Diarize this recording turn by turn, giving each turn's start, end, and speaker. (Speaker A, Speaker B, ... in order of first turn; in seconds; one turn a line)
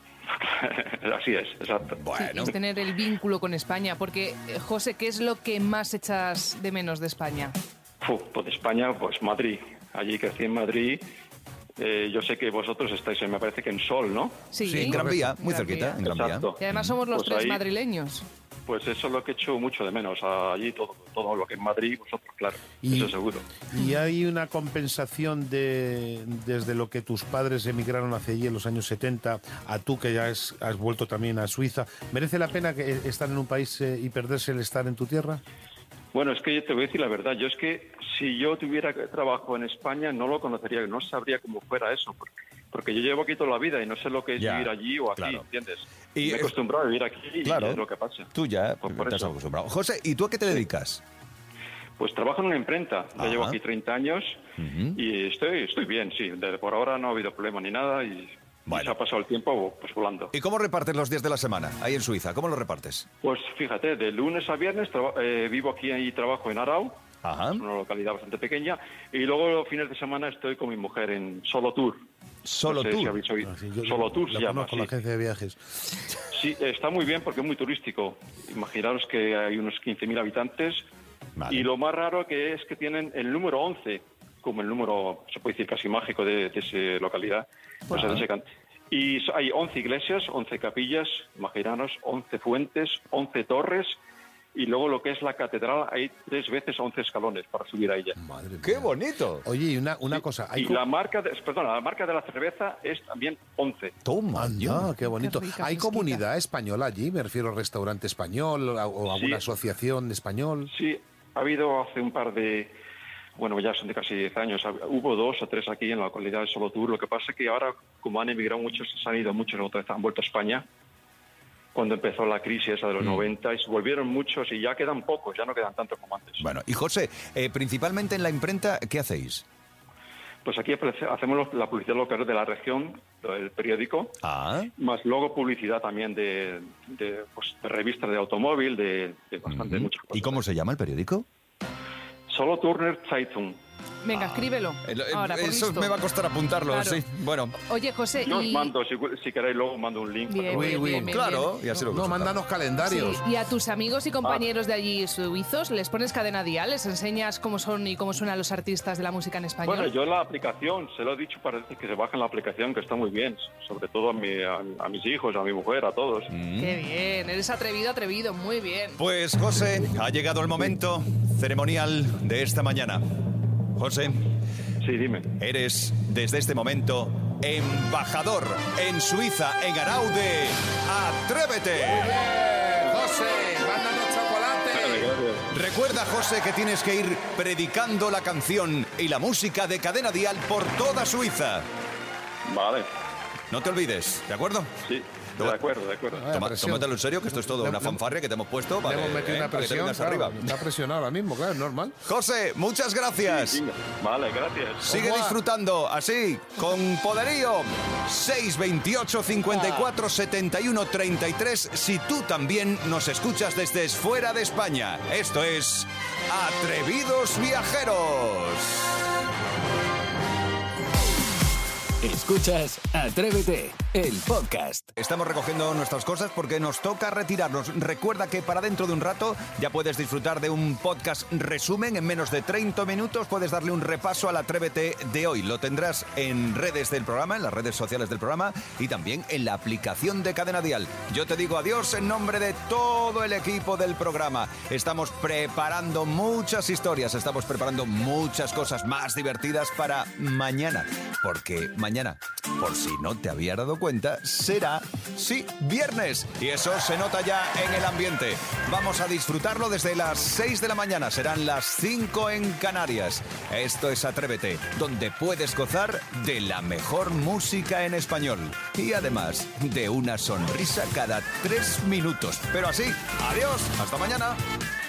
Speaker A: 0.3-2.0
Speaker B: 1.9-2.5
Speaker C: 2.1-7.6
Speaker A: 8.0-11.0
Speaker A: 11.8-14.5
Speaker C: 14.5-16.0
Speaker B: 14.7-16.9
Speaker D: 14.8-15.2
Speaker A: 16.0-16.6
Speaker C: 16.6-18.2
Speaker A: 17.1-17.6
Speaker A: 18.7-23.5
Speaker D: 22.8-35.4
Speaker A: 36.1-48.3
Speaker B: 44.4-45.5
Speaker B: 46.1-46.6
Speaker B: 47.4-51.0
Speaker A: 48.8-49.3
Speaker A: 52.0-54.4
Speaker B: 53.2-53.6
Speaker B: 54.6-55.0
Speaker A: 54.9-60.3
Speaker B: 58.7-59.0
Speaker B: 60.3-63.1
Speaker A: 63.2-67.0
Speaker B: 67.2-67.6
Speaker A: 67.6-72.0
Speaker B: 72.5-73.2
Speaker A: 72.7-74.9
Speaker D: 73.4-75.6
Speaker A: 76.3-80.8
Speaker B: 81.4-81.7
Speaker A: 81.5-94.0
Speaker B: 87.9-88.3
Speaker A: 94.5-98.2
Speaker D: 98.2-100.8
Speaker B: 98.6-99.5
Speaker A: 100.6-104.0
Speaker B: 104.0-104.9
Speaker D: 104.3-110.7
Speaker C: 105.0-106.2
Speaker A: 109.1-109.4
Speaker A: 110.7-112.7
Speaker A: 113.4-120.7
Speaker A: 121.7-126.5
Speaker B: 123.0-123.3
Speaker B: 126.4-129.4
Speaker A: 130.4-134.2
Speaker B: 134.2-134.7
Speaker A: 134.8-140.4
Speaker B: 139.5-141.3
Speaker A: 142.3-143.6
Speaker C: 144.0-146.0
Speaker B: 144.1-147.6
Speaker C: 146.7-147.0
Speaker C: 147.7-148.7
Speaker A: 148.2-151.1
Speaker C: 150.3-151.6
Speaker D: 150.5-151.2
Speaker B: 151.1-152.4
Speaker D: 151.9-153.2
Speaker C: 152.8-159.9
Speaker A: 159.7-166.3
Speaker B: 166.3-166.8
Speaker C: 166.6-169.0
Speaker B: 169.0-173.0
Speaker B: 173.8-174.2
Speaker A: 174.8-175.3
Speaker B: 175.4-182.2
Speaker D: 181.9-185.1
Speaker A: 184.7-185.5
Speaker B: 185.5-191.7
Speaker A: 192.5-192.9
Speaker B: 193.5-194.7
Speaker A: 194.8-196.3
Speaker D: 196.2-198.0
Speaker B: 196.3-200.6
Speaker D: 198.8-202.0
Speaker B: 202.1-203.6
Speaker A: 203.3-204.9
Speaker B: 204.8-219.0
Speaker D: 204.9-205.4
Speaker E: 222.0-224.9
Speaker B: 224.9-274.4